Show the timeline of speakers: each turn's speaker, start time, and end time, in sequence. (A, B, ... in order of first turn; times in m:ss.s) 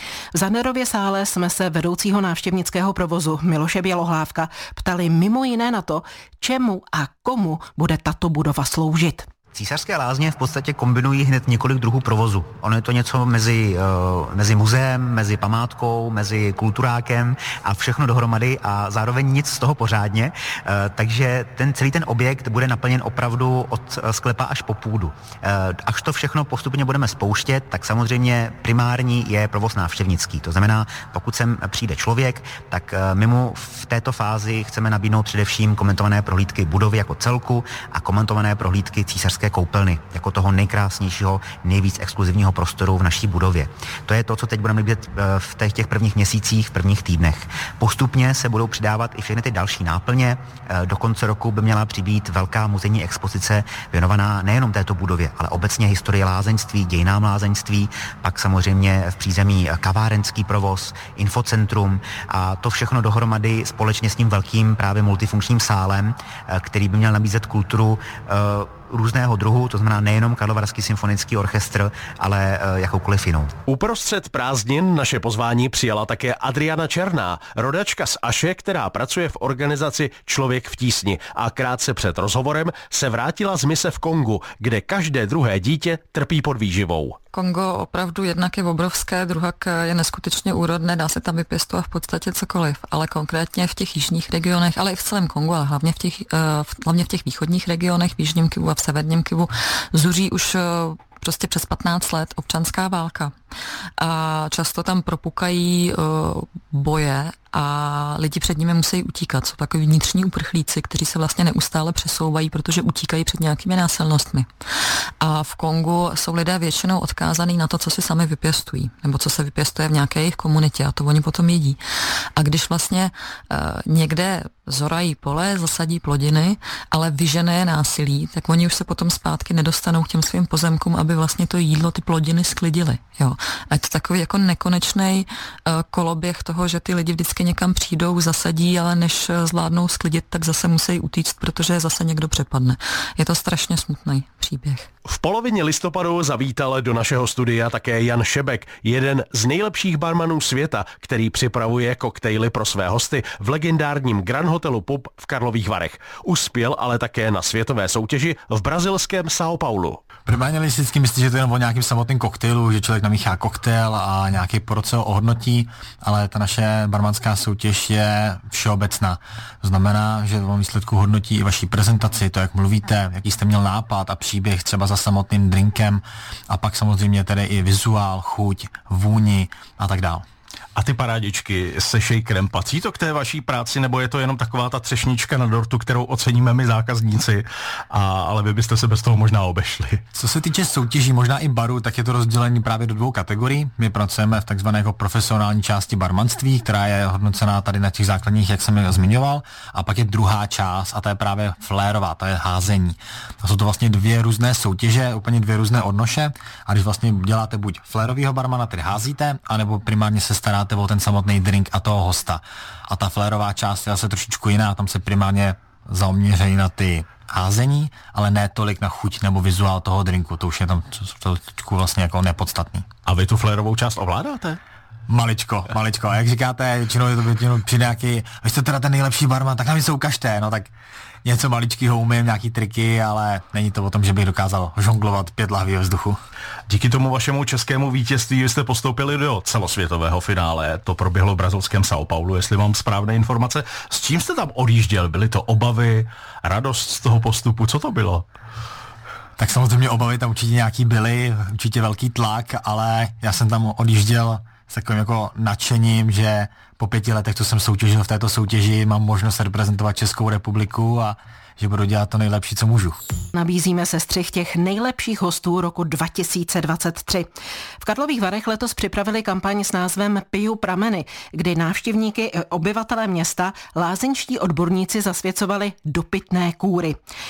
0:00.3-0:09.3 A
0:09.5-1:13.5 B
1:13.6-1:27.2 C
1:27.3-1:43.3 D
1:44.0-1:54.5 D
1:55.2-2:01.8 D
2:02.4-2:24.9 D
2:25.0-2:40.0 C
2:40.2-3:00.2 E
3:00.8-3:10.0 C
3:10.1-3:42.8 E
3:43.0-3:44.6 C
3:45.1-3:50.7 E
3:51.2-3:56.2 E
3:56.7-4:08.2 C
4:09.4-4:23.0 E
4:23.3-4:27.3 A
4:27.8-4:37.0 A